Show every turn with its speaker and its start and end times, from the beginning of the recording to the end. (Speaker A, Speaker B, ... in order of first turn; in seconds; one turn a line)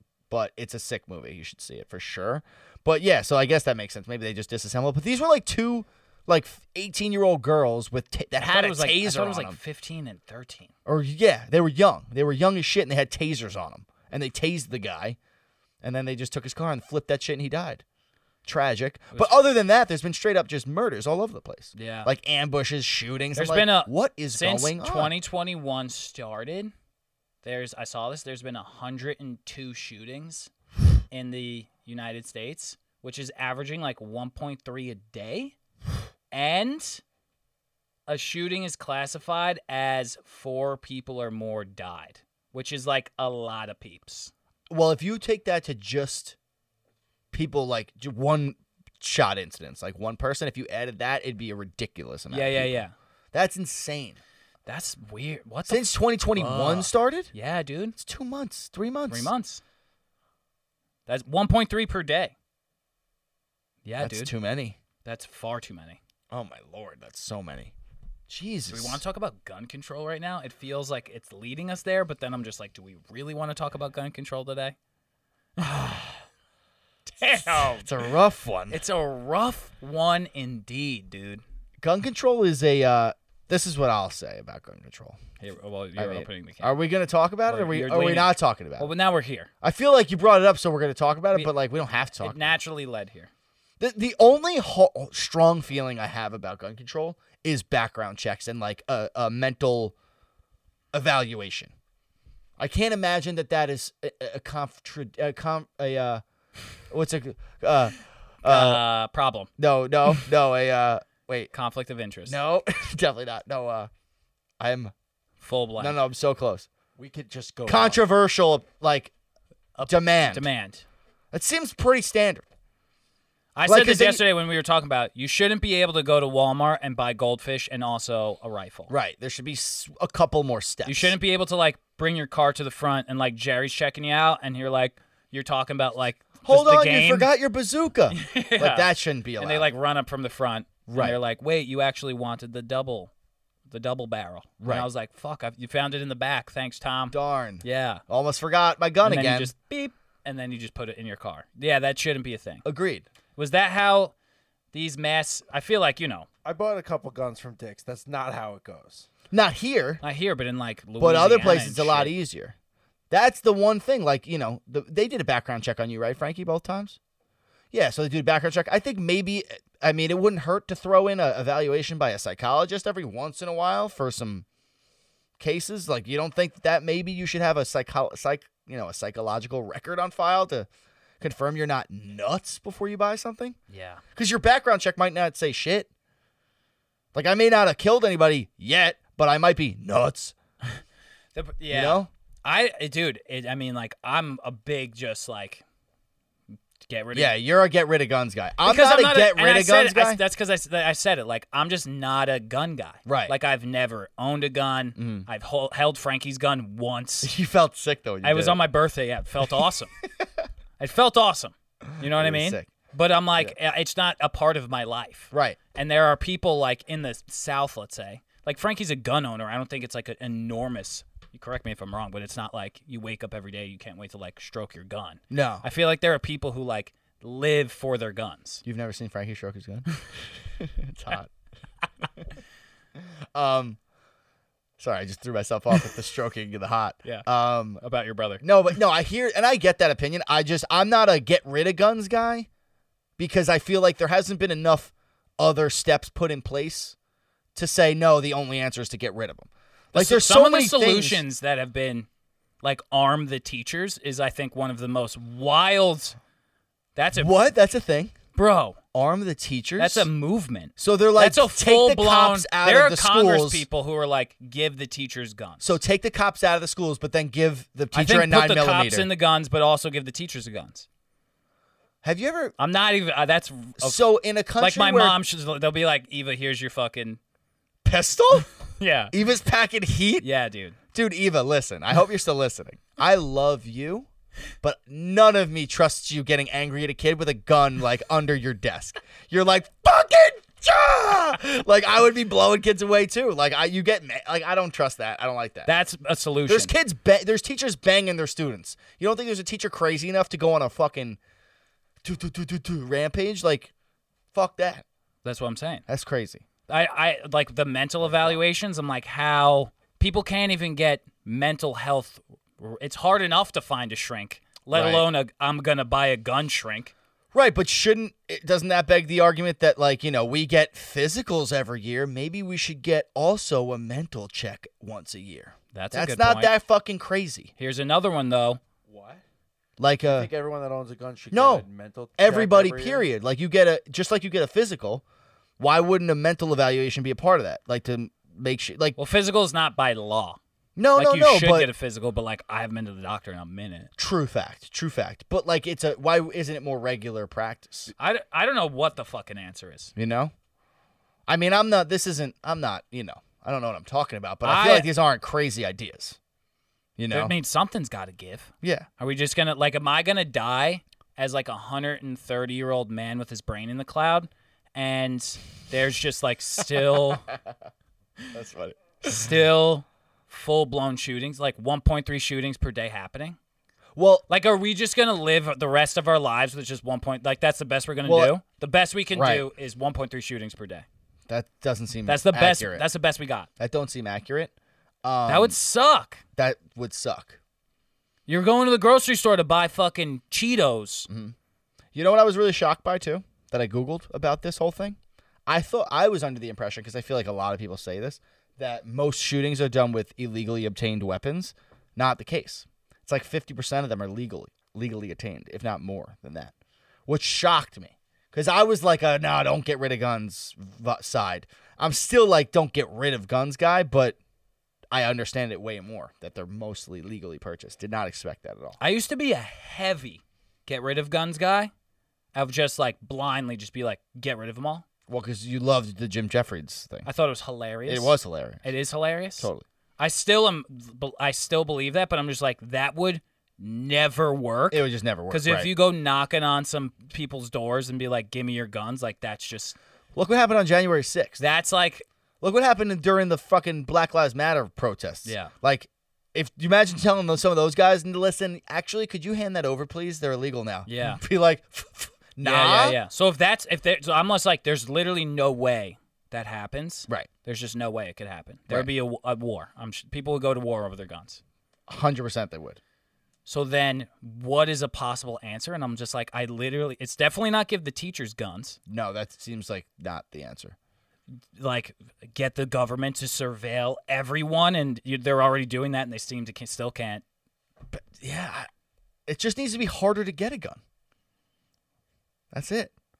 Speaker A: 0.3-9.6
Speaker B: 8.4-10.7
Speaker A: 10.8-15.2
Speaker A: 15.8-17.8
Speaker A: 18.4-25.1
Speaker B: 21.7-22.1
Speaker B: 23.3-26.7
Speaker B: 27.4-30.5
Speaker B: 31.1-35.5
Speaker B: 36.3-37.0
Speaker B: 38.1-44.3
Speaker A: 44.7-46.4
Speaker A: 47.3-52.8
Speaker B: 52.3-52.9
Speaker A: 53.3-54.2
Speaker B: 54.6-58.0
Speaker A: 55.7-57.3
Speaker A: 58.0-59.3
Speaker B: 59.1-59.6
Speaker B: 61.1-62.3
Speaker B: 63.8-64.3
Speaker A: 64.0-64.8
Speaker B: 65.0-66.0
Speaker A: 66.3-67.7
Speaker A: 68.3-69.0
Speaker B: 68.7-74.8
Speaker B: 75.6-76.2
Speaker B: 77.2-77.9
Speaker A: 77.4-78.8
Speaker B: 78.7-81.4
Speaker A: 81.8-85.2
Speaker B: 85.4-86.8
Speaker A: 86.0-88.9
Speaker B: 87.5-89.5
Speaker A: 89.6-92.6
Speaker B: 92.2-93.3
Speaker A: 93.8-99.9
Speaker A: 100.9-101.7
Speaker A: 102.6-106.2
Speaker A: 106.9-108.8
Speaker B: 108.4-109.5
Speaker A: 109.6-111.5
Speaker B: 111.5-112.4
Speaker A: 112.3-113.9
Speaker A: 114.6-114.9
Speaker B: 115.4-116.0
Speaker A: 115.8-116.7
Speaker C: 117.0-118.0
Speaker A: 117.7-119.1
Speaker B: 119.8-120.8
Speaker A: 119.8-120.5
Speaker A: 121.3-122.4
Speaker B: 123.5-128.9
Speaker A: 123.6-124.2
Speaker A: 128.9-131.2
Speaker B: 130.8-137.3
Speaker A: 136.4-139.7
Speaker B: 138.1-143.1
Speaker A: 140.9-141.2
Speaker B: 143.7-148.0
Speaker A: 144.6-144.9
Speaker A: 147.1-149.5
Speaker B: 149.0-152.7
Speaker A: 152.6-153.1
Speaker B: 153.4-154.1
Speaker B: 154.7-156.3
Speaker C: 156.4-159.1
Speaker A: 159.3-160.0
Speaker B: 160.0-162.2
Speaker A: 161.0-162.5
Speaker A: 163.1-167.0
Speaker A: 167.7-174.4
Speaker A: 175.4-180.7
Speaker A: 181.2-183.6
Speaker B: 183.7-184.0
Speaker A: 184.1-185.9
Speaker A: 187.1-190.3
Speaker B: 191.3-195.6
Speaker A: 191.7-192.1
Speaker B: 196.9-197.3
Speaker A: 197.1-200.2
Speaker B: 198.6-207.3
Speaker A: 203.1-203.3
Speaker A: 204.9-205.3
Speaker A: 207.2-208.6
Speaker B: 208.2-209.9
Speaker B: 210.8-228.6
Speaker A: 211.9-212.7
Speaker A: 215.3-215.6
Speaker A: 225.3-225.6
Speaker A: 228.6-231.3
Speaker A: 233.0-233.8
Speaker A: 234.8-237.8
Speaker B: 237.8-238.4
Speaker A: 238.4-242.5
Speaker A: 243.2-246.9
Speaker A: 247.5-251.2
Speaker B: 249.9-252.1
Speaker B: 252.6-256.2
Speaker B: 256.9-257.3
Speaker A: 257.1-258.1
Speaker B: 258.3-258.8
Speaker A: 258.9-260.1
Speaker B: 259.8-265.8
Speaker A: 260.8-263.6
Speaker A: 265.6-269.1
Speaker B: 267.9-270.9
Speaker A: 272.0-272.6
Speaker B: 272.6-274.0
Speaker A: 273.8-275.2
Speaker B: 274.6-277.2
Speaker A: 277.8-278.5
Speaker B: 278.8-279.1
Speaker A: 279.1-280.2
Speaker B: 280.2-280.8
Speaker A: 280.9-284.1
Speaker A: 284.6-295.7
Speaker B: 295.6-296.7
Speaker A: 296.5-301.2
Speaker A: 302.0-303.7
Speaker A: 304.3-304.8
Speaker B: 305.2-305.8
Speaker A: 305.9-306.4
Speaker B: 306.7-316.9
Speaker A: 314.7-315.1
Speaker A: 317.3-327.5
Speaker B: 325.7-326.5
Speaker B: 327.6-328.6
Speaker C: 328.9-329.2
Speaker A: 329.8-330.3
Speaker C: 330.1-333.1
Speaker A: 331.3-331.6
Speaker A: 332.2-335.0
Speaker A: 335.6-339.0
Speaker B: 339.0-340.4
Speaker A: 340.8-341.7
Speaker B: 340.9-343.9
Speaker A: 344.0-347.9
Speaker B: 348.0-349.9
Speaker A: 349.9-350.3
Speaker A: 351.3-356.2
Speaker B: 354.4-354.9
Speaker A: 357.0-357.3
Speaker B: 357.1-367.3
Speaker A: 358.6-358.9
Speaker A: 368.3-369.3
Speaker B: 369.0-373.4
Speaker A: 373.9-374.2
Speaker B: 374.3-380.8
Speaker A: 378.0-378.4
Speaker A: 379.1-379.4
Speaker A: 381.3-382.9
Speaker B: 382.1-383.5
Speaker A: 383.6-384.5
Speaker A: 385.0-385.6
Speaker B: 385.2-386.2
Speaker A: 386.4-387.4
Speaker B: 388.3-391.1
Speaker A: 391.1-391.3
Speaker A: 391.9-406.5
Speaker A: 407.1-414.2
Speaker A: 414.9-418.8
Speaker B: 418.8-421.7
Speaker B: 422.3-424.8
Speaker A: 425.1-427.1
Speaker B: 427.0-439.8
Speaker A: 427.9-428.6
Speaker A: 429.4-429.6
Speaker A: 434.7-435.7
Speaker A: 440.1-441.4
Speaker B: 441.4-442.0
Speaker A: 442.4-453.0
Speaker B: 445.2-445.5
Speaker B: 450.9-451.2
Speaker B: 452.4-461.4
Speaker A: 461.9-462.8
Speaker B: 463.4-468.8
Speaker A: 468.9-470.7
Speaker B: 471.6-477.2
Speaker A: 477.9-478.7
Speaker A: 479.3-480.8
Speaker A: 482.5-482.9